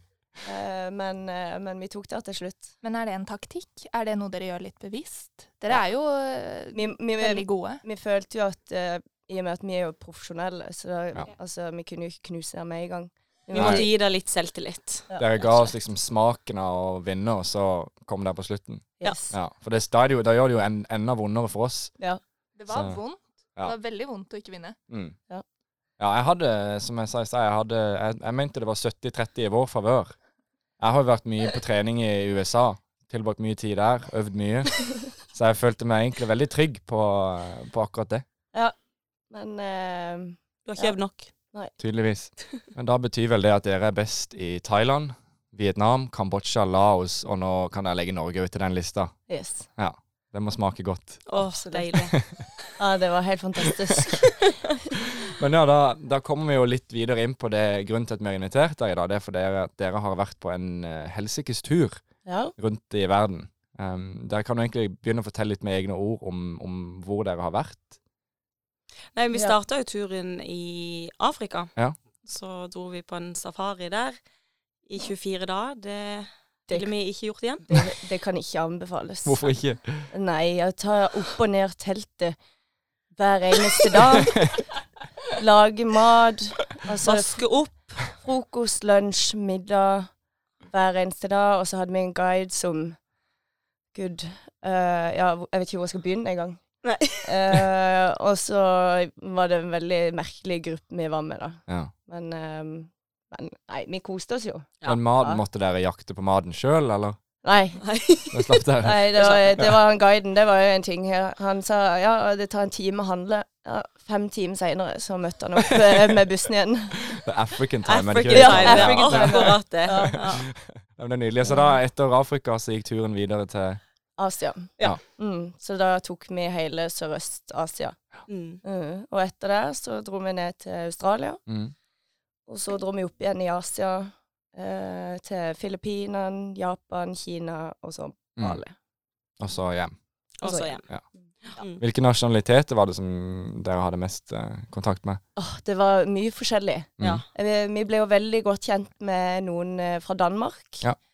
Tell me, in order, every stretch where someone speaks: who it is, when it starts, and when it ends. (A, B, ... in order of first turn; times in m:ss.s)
0:00.4-0:02.8 A
0:02.8-0:07.8 B
0:06.7-0:13.9 A
0:13.5-0:15.7 C
0:13.6-0:13.8 D
0:15.2-0:21.9 D
0:19.0-0:19.4 A
0:22.6-0:24.8 B
0:22.7-0:23.0 D
0:24.9-0:25.2 D
0:26.0-0:30.1 D
0:30.8-0:38.2 D
0:39.3-0:41.0 A
0:40.7-0:41.3 C
0:41.8-0:49.1 D
0:49.3-0:49.7 A
0:49.8-0:51.3 D
0:51.3-0:52.2 C
0:51.4-0:51.9 A
0:52.1-0:52.5 D
0:52.8-0:54.3 A
0:55.2-1:02.0 D
1:02.3-1:02.5 A
1:02.6-1:07.9 D
1:09.2-1:11.7 C
1:12.2-1:14.2 C
1:14.9-1:17.9 C
1:17.7-1:19.6 A
1:19.2-1:20.1 D
1:20.1-1:22.4 A
1:23.2-1:24.5 A
1:24.3-1:24.5 D
1:25.3-1:27.4 A
1:27.0-1:27.9 C
1:28.1-1:30.1 A
1:30.7-1:33.0 A
1:33.9-1:36.6 A
1:36.8-1:37.3 C
1:37.2-1:45.4 A
1:44.9-1:47.2 D
1:47.4-1:47.8 A
1:47.8-1:48.5 C
1:48.3-1:49.7 D
1:48.8-1:57.2 A
1:49.2-1:49.5 C
1:55.9-1:56.1 D
1:57.1-2:03.8 D
1:57.9-2:00.4 C
1:58.3-2:00.4 A
2:01.5-2:01.7 A
2:04.2-2:08.0 A
2:08.3-2:08.6 C
2:08.6-2:11.4 A
2:11.5-2:11.7 D
2:12.5-2:18.8 A
2:19.4-2:19.9 D
2:20.4-2:20.8 C
2:20.4-2:20.7 A
2:21.6-2:21.8 C
2:21.7-2:25.2 D
2:25.4-2:30.9 A
2:27.0-2:27.2 D
2:27.0-2:27.2 C